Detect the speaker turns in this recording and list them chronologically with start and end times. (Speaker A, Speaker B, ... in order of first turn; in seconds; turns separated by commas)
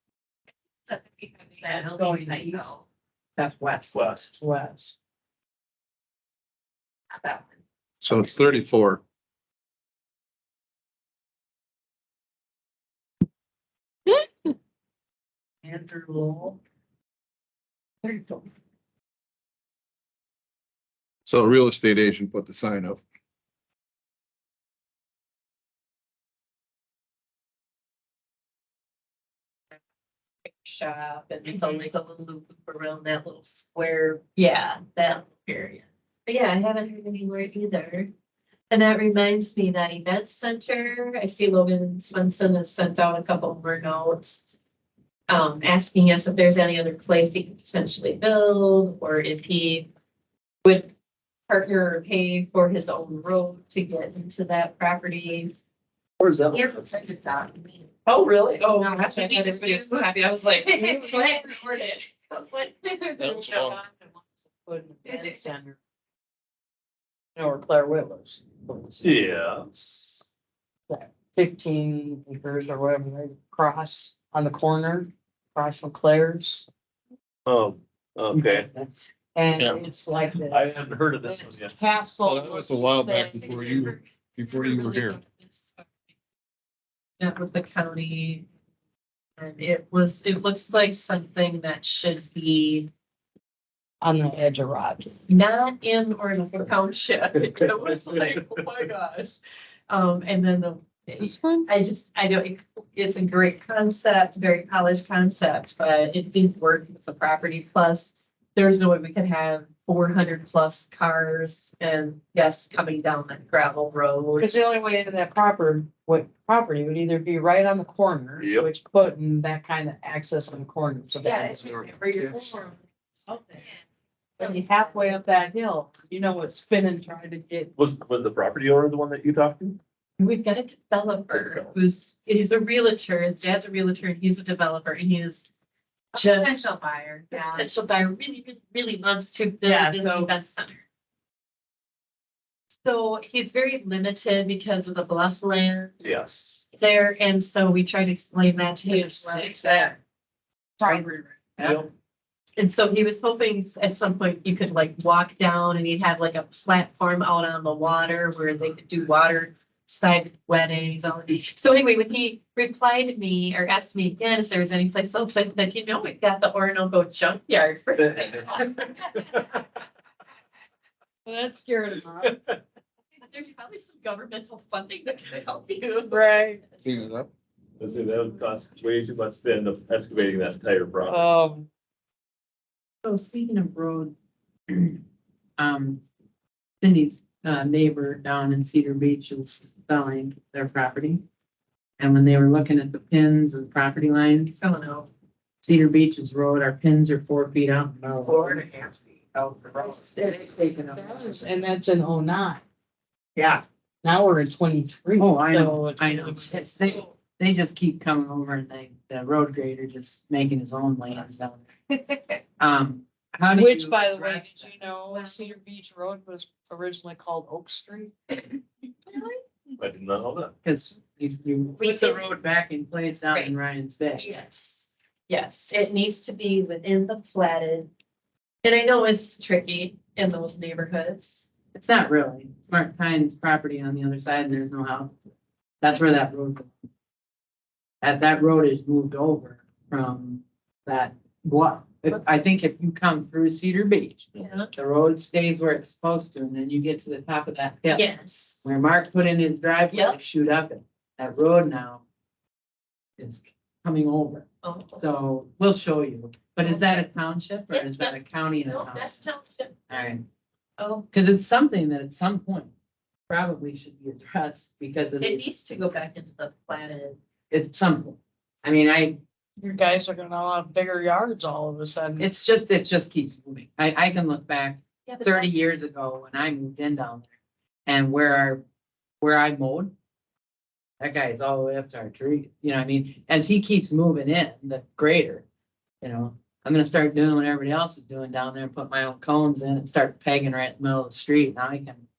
Speaker A: 0.8-2.8, Speaker B: 1.6-2.7, Speaker C: 3.4-4.0, Speaker D: 3.9-4.3, Speaker B: 4.4-4.9, Speaker A: 7.1-7.5, Speaker E: 8.0-9.0, Speaker B: 15.6-16.6, Speaker E: 21.3-23.0, Speaker A: 30.6-38.1, Speaker A: 38.7-44.6, Speaker A: 45.3-49.9, Speaker A: 50.6-50.9, Speaker A: 51.5-55.5, Speaker D: 56.2-56.9, Speaker A: 56.5-57.9, Speaker B: 58.1-59.8, Speaker A: 58.5-63.2, Speaker B: 60.6-62.0, Speaker B: 63.1-65.8, Speaker E: 63.2-63.8, Speaker B: 67.3-69.2, Speaker D: 69.0-70.2, Speaker B: 70.9-76.7, Speaker D: 77.5-78.7, Speaker C: 78.3-78.6, Speaker B: 79.3-80.7, Speaker D: 80.5-81.7, Speaker B: 81.2-83.6, Speaker E: 82.2-85.2, Speaker A: 83.0-85.9, Speaker A: 87.2-88.5, Speaker A: 89.4-92.9, Speaker B: 94.0-95.1, Speaker A: 95.3-114.5, Speaker D: 97.9-98.3, Speaker B: 101.2-101.7, Speaker B: 114.4-122.6, Speaker D: 118.4-118.7, Speaker A: 121.2-122.6, Speaker B: 123.3-123.6, Speaker A: 124.4-125.2, Speaker B: 124.4-127.7, Speaker D: 127.8-129.8, Speaker A: 130.2-135.5, Speaker D: 131.3-131.7, Speaker A: 136.1-140.8, Speaker B: 137.3-137.6, Speaker B: 139.6-140.3, Speaker A: 142.7-145.9, Speaker D: 146.0-146.6, Speaker A: 146.7-149.8, Speaker B: 148.9-149.9, Speaker B: 150.8-151.3, Speaker C: 151.6-151.8, Speaker D: 151.6-151.9, Speaker A: 152.6-169.6, Speaker B: 171.2-172.4, Speaker A: 173.2-176.4, Speaker B: 176.1-176.6, Speaker E: 176.8-177.3, Speaker D: 177.8-181.2, Speaker B: 181.1-181.7, Speaker C: 183.0-184.1, Speaker C: 185.6-186.0, Speaker C: 186.8-191.2, Speaker C: 192.0-194.6, Speaker A: 194.6-195.1, Speaker C: 195.6-198.6, Speaker A: 198.3-198.9, Speaker C: 199.3-201.4, Speaker B: 200.2-202.6, Speaker C: 203.3-203.6, Speaker B: 204.0-206.8, Speaker C: 205.2-211.6, Speaker C: 212.6-214.7, Speaker B: 213.5-218.4, Speaker A: 215.1-215.5, Speaker A: 219.1-219.4, Speaker D: 219.8-220.5, Speaker C: 220.6-224.2, Speaker A: 221.8-222.2, Speaker A: 224.2-227.9, Speaker A: 228.6-231.5, Speaker C: 231.7-235.1, Speaker C: 235.8-236.7, Speaker C: 238.0-248.0, Speaker A: 244.3-244.7, Speaker A: 247.9-248.6, Speaker C: 248.6-252.0, Speaker A: 249.9-250.2, Speaker C: 253.2-254.4, Speaker A: 254.6-255.0, Speaker C: 255.0-259.2, Speaker A: 256.6-257.0, Speaker A: 257.7-260.0, Speaker C: 259.9-260.2, Speaker A: 260.8-261.1, Speaker C: 261.1-262.7, Speaker C: 263.3-265.4, Speaker A: 265.2-267.2, Speaker C: 267.5-269.2, Speaker B: 269.6-272.3, Speaker C: 272.2-277.2, Speaker A: 275.1-275.5, Speaker C: 277.9-278.6, Speaker C: 279.2-279.9, Speaker C: 281.0-285.4, Speaker C: 286.0-292.0